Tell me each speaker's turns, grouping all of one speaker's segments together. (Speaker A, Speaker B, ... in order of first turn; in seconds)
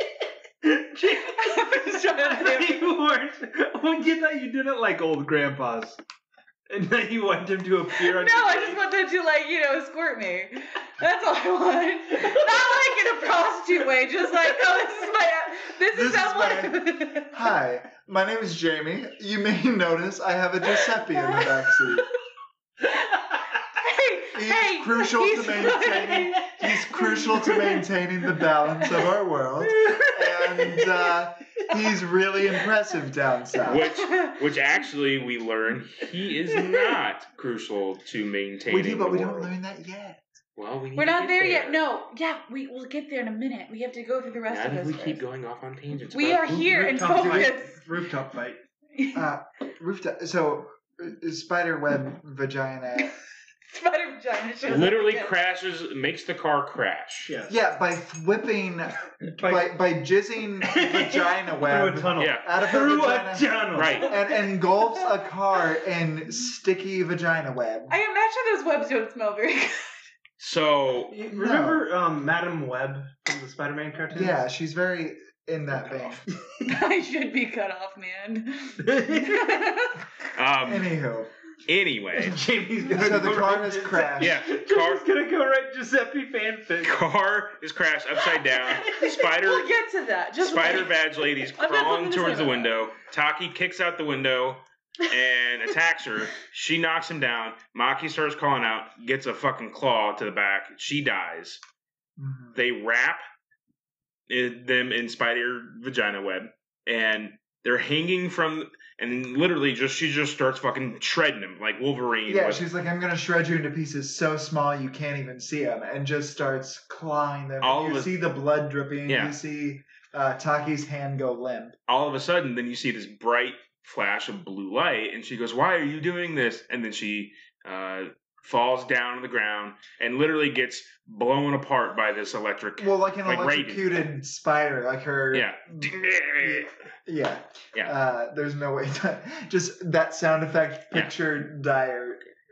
Speaker A: 0.6-6.0, 6.7-8.8, 36.6-36.9, 46.5-48.6, 57.2-57.6, 59.3-59.7, 60.7-64.2, 71.1-74.4, 78.8-79.6, 82.2-87.0
Speaker B: 1.4-2.9, 8.0-17.4, 21.1-21.9, 23.7-27.8, 30.4-30.9, 33.8-34.4, 41.0-45.2, 46.1-47.8, 49.0-49.2, 53.7-55.3, 67.9-70.0, 76.7-80.0, 88.2-92.7
Speaker C: 15.9-22.1, 24.3-33.9, 38.7-40.2, 49.1-53.1, 57.5-68.0, 71.3-71.8, 74.1-76.2, 80.6-81.3, 82.9-84.4, 102.2-102.6, 112.3-121.8, 132.8-142.2
Speaker D: 33.6-39.5, 40.6-41.8, 44.5-46.6, 54.6-57.3, 62.2-62.5, 63.7-64.2, 70.4-71.1, 80.3-80.9, 81.7-82.4, 84.2-85.0, 86.8-89.7, 90.4-101.6, 102.5-103.2, 104.3-112.6, 117.6-118.1, 119.1-119.3, 121.9-134.0, 135.3-136.7